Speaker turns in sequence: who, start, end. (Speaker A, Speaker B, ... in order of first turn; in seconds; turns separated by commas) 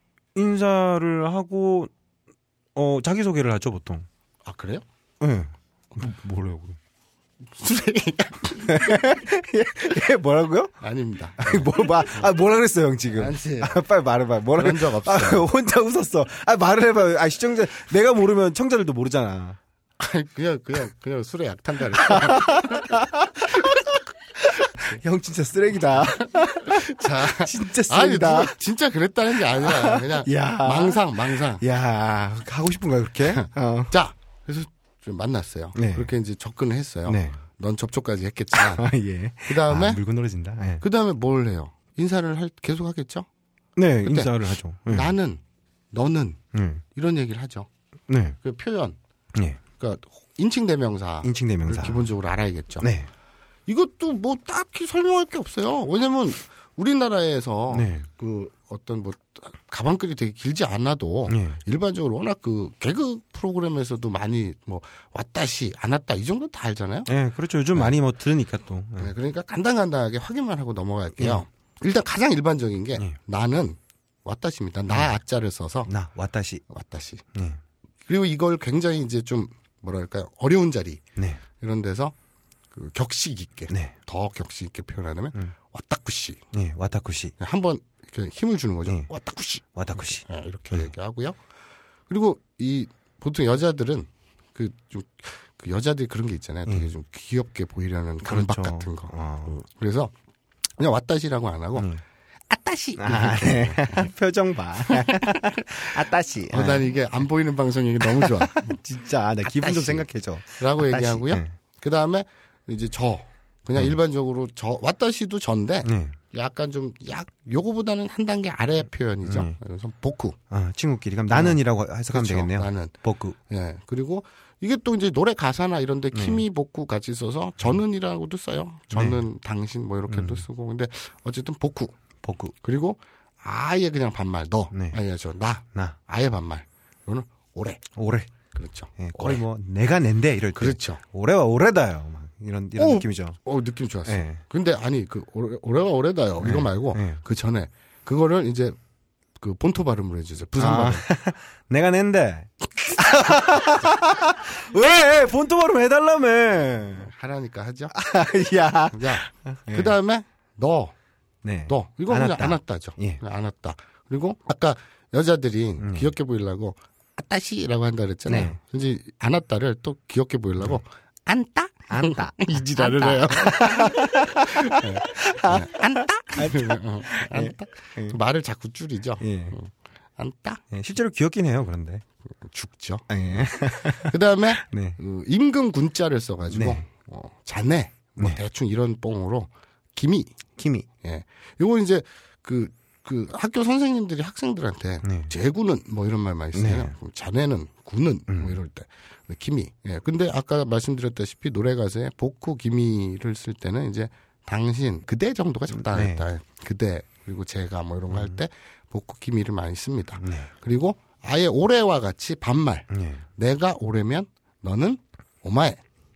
Speaker A: 0.3-1.9, Speaker A: 2.7-4.0, Speaker B: 4.4-4.8, Speaker A: 5.2-6.8, Speaker B: 7.6-8.8, Speaker A: 8.6-10.7, Speaker B: 10.8-12.3, Speaker A: 11.4-19.6, Speaker B: 13.1-13.8, Speaker B: 14.6-15.4, Speaker B: 20.0-22.9, Speaker A: 22.1-28.6, Speaker B: 26.6-31.6, Speaker A: 29.6-33.9, Speaker B: 33.3-38.9, Speaker A: 35.8-36.1, Speaker A: 37.1-37.4, Speaker A: 38.5-40.8, Speaker B: 39.5-40.0, Speaker B: 40.8-43.2, Speaker A: 43.8-45.1, Speaker B: 44.0-44.3, Speaker B: 44.9-45.4, Speaker B: 45.9-46.4, Speaker A: 46.5-46.8, Speaker B: 46.9-47.7, Speaker A: 48.1-48.4, Speaker B: 48.4-49.0, Speaker B: 49.8-52.9, Speaker A: 51.2-52.1, Speaker A: 52.8-53.1, Speaker B: 53.7-67.1, Speaker A: 57.7-58.1, Speaker A: 61.3-61.6, Speaker A: 67.1-69.1, Speaker B: 69.0-75.9, Speaker A: 71.2-71.4, Speaker A: 75.9-76.6, Speaker B: 76.7-77.2, Speaker A: 77.3-77.6, Speaker B: 78.1-81.0, Speaker B: 81.6-82.1, Speaker B: 82.7-86.4, Speaker A: 86.5-87.3, Speaker B: 87.4-91.4, Speaker A: 89.7-90.9, Speaker B: 92.1-100.1, Speaker A: 98.2-99.5, Speaker B: 100.8-101.9, Speaker B: 102.5-104.1, Speaker A: 103.0-106.9, Speaker B: 104.9-105.3, Speaker B: 106.5-108.8, Speaker A: 108.1-111.5, Speaker B: 109.5-120.3, Speaker A: 115.8-116.2, Speaker A: 119.2-119.5, Speaker A: 120.5-123.3, Speaker B: 121.3-123.0, Speaker B: 123.5-131.9, Speaker A: 126.1-126.4, Speaker A: 128.9-129.2, Speaker A: 130.1-130.4, Speaker A: 132.2-132.5, Speaker B: 132.6-137.9, Speaker A: 134.7-135.0, Speaker A: 138.0-138.3, Speaker B: 138.5-139.4, Speaker A: 139.0-143.4, Speaker B: 140.6-141.0, Speaker B: 142.8-148.8, Speaker A: 144.1-144.4, Speaker A: 146.4-147.2, Speaker B: 149.4-151.0, Speaker A: 150.6-157.1, Speaker B: 157.0-157.9, Speaker A: 157.9-159.9, Speaker B: 158.9-160.9, Speaker A: 161.4-163.2, Speaker B: 161.7-180.6, Speaker A: 165.8-166.1, Speaker A: 168.3-168.6, Speaker A: 171.9-178.2, Speaker A: 179.2-179.5, Speaker A: 180.7-182.0, Speaker B: 182.4-183.0, Speaker A: 183.1-185.0, Speaker B: 184.1-190.3, Speaker A: 186.5-186.8, Speaker A: 190.6-190.9, Speaker B: 191.0-215.8, Speaker A: 195.0-195.3, Speaker A: 196.5-196.9, Speaker A: 198.3-198.6, Speaker A: 205.7-206.2, Speaker A: 208.1-208.4, Speaker A: 210.2-210.5, Speaker A: 212.9-213.2